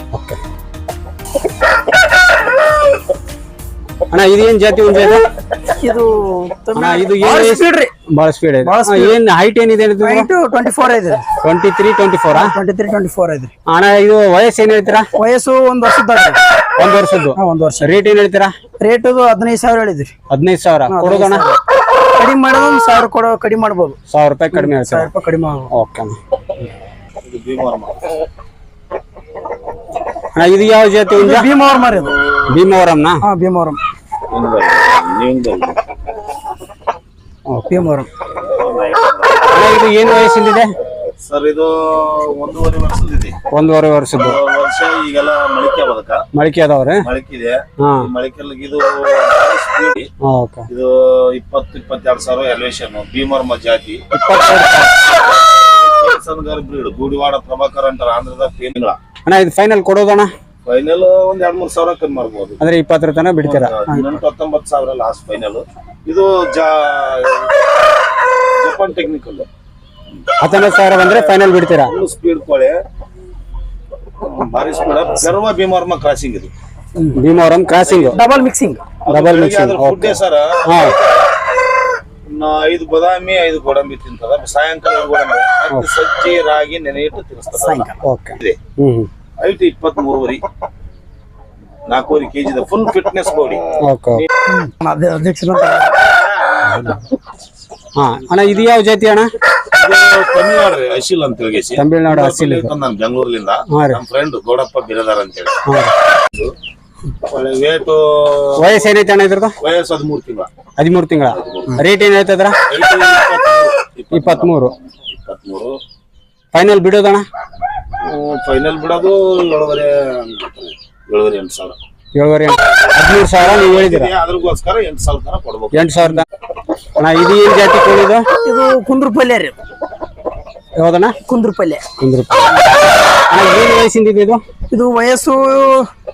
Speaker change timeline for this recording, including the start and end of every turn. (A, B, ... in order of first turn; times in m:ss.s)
0:00.1-0:00.4 A
0:04.1-0:05.3 A
0:05.7-0:07.9 B
0:06.8-0:10.3 A
0:08.6-0:09.2 B
0:10.0-0:11.3 B
0:11.4-0:12.6 A
0:12.3-0:13.5 B
0:13.7-0:15.1 A
0:15.1-0:16.4 B
0:16.8-0:18.5 A
0:17.4-0:18.0 B
0:18.8-0:20.1 B
0:20.3-0:21.4 A
0:20.9-0:21.6 B
0:22.2-0:24.0 B
0:24.1-0:25.1 A
0:24.5-0:25.7 B
0:25.7-0:26.2 A
0:27.2-0:28.2 C
0:30.4-0:31.5 A
0:31.1-0:32.2 B
0:32.5-0:33.2 A
0:33.2-0:33.8 B
0:34.3-0:35.8 C
0:37.5-0:37.8 A
0:37.7-0:38.1 B
0:38.5-0:39.5 C
0:39.5-0:40.7 A
0:41.2-0:43.4 C
0:43.5-0:44.4 A
0:44.2-0:46.2 C
0:46.3-0:47.1 A
0:47.0-0:50.1 C
0:47.8-0:48.1 A
0:50.2-0:50.7 A
0:50.7-0:54.1 C
0:54.1-0:55.0 A
0:55.1-0:59.0 C
0:59.3-1:00.3 A
1:00.7-1:02.6 C
1:02.6-1:03.7 A
1:03.4-1:07.5 C
1:03.9-1:04.2 B
1:08.6-1:09.5 C
1:10.4-1:11.9 A
1:10.5-1:12.8 C
1:14.2-1:16.5 C
1:17.1-1:18.2 A
1:17.8-1:18.2 C
1:18.1-1:19.0 B
1:19.0-1:21.3 C
1:19.1-1:21.0 A
1:22.3-1:28.6 C
1:27.5-1:28.0 B
1:28.0-1:29.1 A
1:29.4-1:30.4 C
1:31.9-1:33.6 C
1:33.8-1:34.2 A
1:34.4-1:36.0 B
1:36.7-1:37.0 A
1:38.0-1:39.3 A
1:39.7-1:45.6 C
1:41.8-1:42.7 A
1:43.7-1:44.0 A
1:45.7-1:45.9 A
1:46.2-1:46.5 C
1:47.2-1:48.9 C
1:48.6-1:49.6 A
1:49.6-1:50.5 C
1:50.8-1:52.6 A
1:51.4-1:51.8 C
1:52.7-1:55.8 C
1:54.1-1:54.7 A
1:56.5-1:57.3 A
1:58.0-2:01.8 C
2:02.2-2:04.1 A
2:03.3-2:05.9 C
2:05.7-2:06.2 A
2:07.0-2:08.2 A
2:08.4-2:09.6 B
2:10.8-2:11.2 A
2:11.2-2:11.8 B
2:12.0-2:12.7 A
2:13.3-2:14.4 A
2:14.7-2:15.9 B